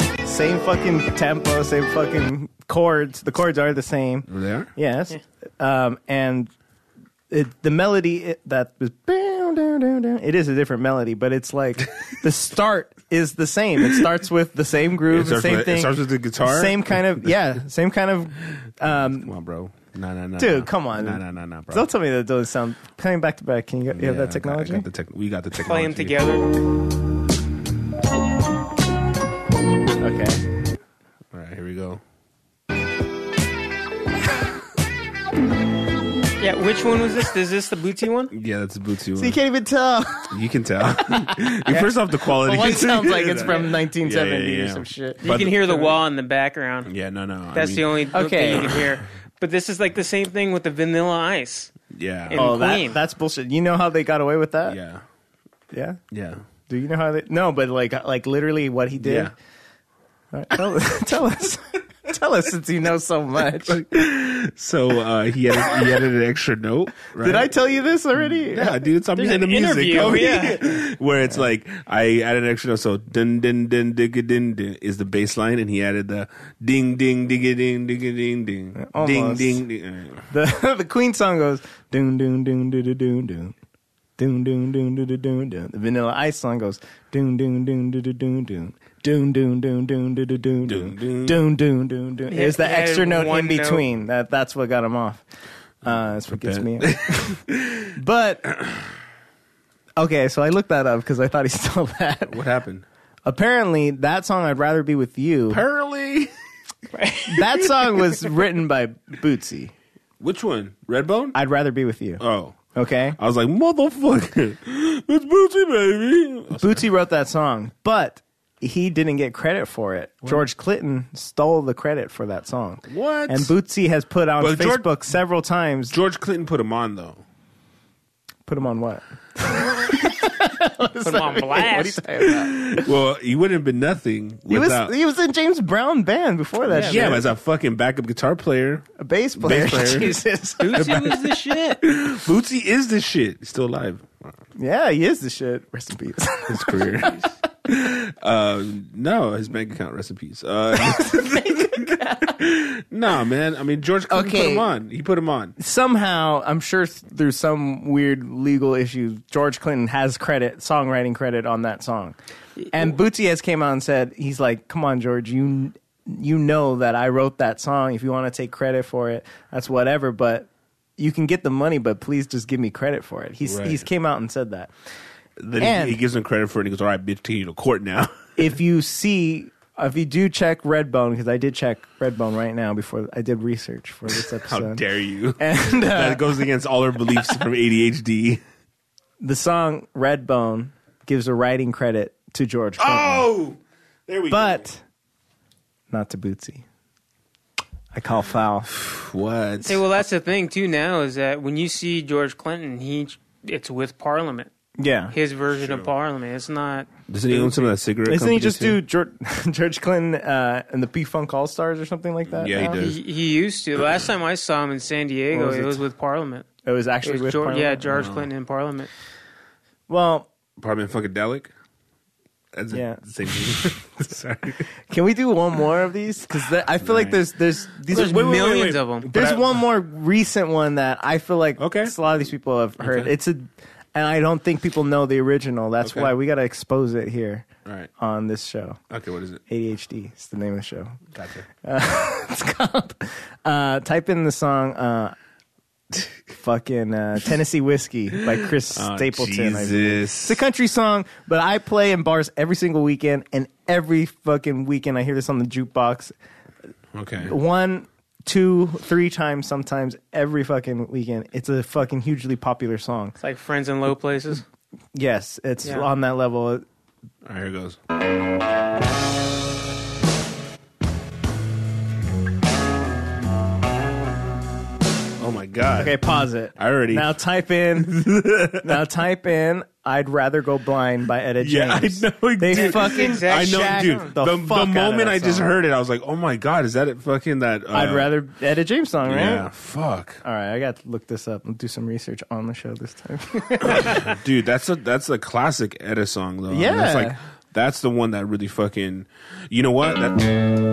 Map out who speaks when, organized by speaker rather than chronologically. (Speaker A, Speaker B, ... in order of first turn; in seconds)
Speaker A: 0.2-6.5, 7.3-19.3, 20.4-24.9, 30.0-30.4, 39.2-40.4, 41.7-45.7, 48.1-48.8, 52.3-54.8, 55.7-56.0, 56.7-59.3, 60.3-63.8, 67.2-68.9, 70.0-70.6, 78.7-79.6, 80.3-83.5, 84.2-95.2, 95.8-97.4, 97.9-98.5, 100.0-102.4, 103.2-105.6, 107.2-109.7, 111.3-112.2, 112.7-113.2, 116.5-125.9, 128.5-132.9, 134.5-137.2, 139.0-141.1, 144.6-147.3, 150.7-152.4, 154.1-154.7, 155.6-162.2, 162.7-174.7, 175.6-176.0, 178.4-184.8, 185.4-186.3, 189.2-193.3, 194.3-194.8, 195.9-196.6, 197.9-198.7, 204.8-205.2, 208.0-212.8, 215.3-215.8, 216.6-218.1, 219.9-220.3, 222.7-224.0, 224.9-228.5, 229.0-238.8, 239.5-241.0, 241.6-245.1, 246.3-256.1, 257.2-263.1, 264.9-266.6, 275.7-285.5, 287.7-289.5, 290.2-294.1, 296.5-297.2
Speaker B: 4.3-4.7, 15.1-17.3, 18.6-21.9, 23.9-26.3, 31.3-32.0, 38.3-39.4, 40.3-45.9, 46.8-48.0, 51.9-52.4, 54.6-55.0, 56.1-56.4, 59.0-59.3, 63.7-67.5, 68.2-80.3, 90.6-91.4, 95.9-98.0, 98.5-98.9, 102.3-102.8, 105.5-106.3, 110.2-111.4, 112.2-116.8, 122.9-123.5, 124.4-124.8, 125.9-127.2, 132.4-134.9, 136.7-140.2, 140.8-141.1, 141.8-144.3, 146.5-155.6, 173.4-173.8, 175.4-178.2, 184.1-188.4, 192.8-194.7, 198.7-199.8, 205.5-205.9, 207.1-208.8, 212.3-213.0, 217.9-218.3, 220.6-221.5, 222.5-224.7, 226.8-227.2, 227.9-229.6, 231.6-231.9, 232.8-233.1, 235.8-236.1, 237.6-237.9, 238.9-239.4, 241.1-241.5, 248.7-250.4, 256.9-257.4, 267.2-267.8, 275.2-277.1, 277.8-278.8, 281.4-288.1, 289.0-290.2, 293.6-300.4
Speaker C: 25.6-26.5, 36.4-38.3, 43.4-43.7, 45.2-46.9, 47.5-51.7, 52.3-53.0, 69.2-70.8, 92.3-93.8, 106.9-108.0, 131.0-132.0, 136.7-137.2, 140.6-141.8, 199.6-204.5, 205.1-207.6, 212.8-216.4, 217.0-218.9, 227.9-229.1, 263.2-264.4, 282.5-284.1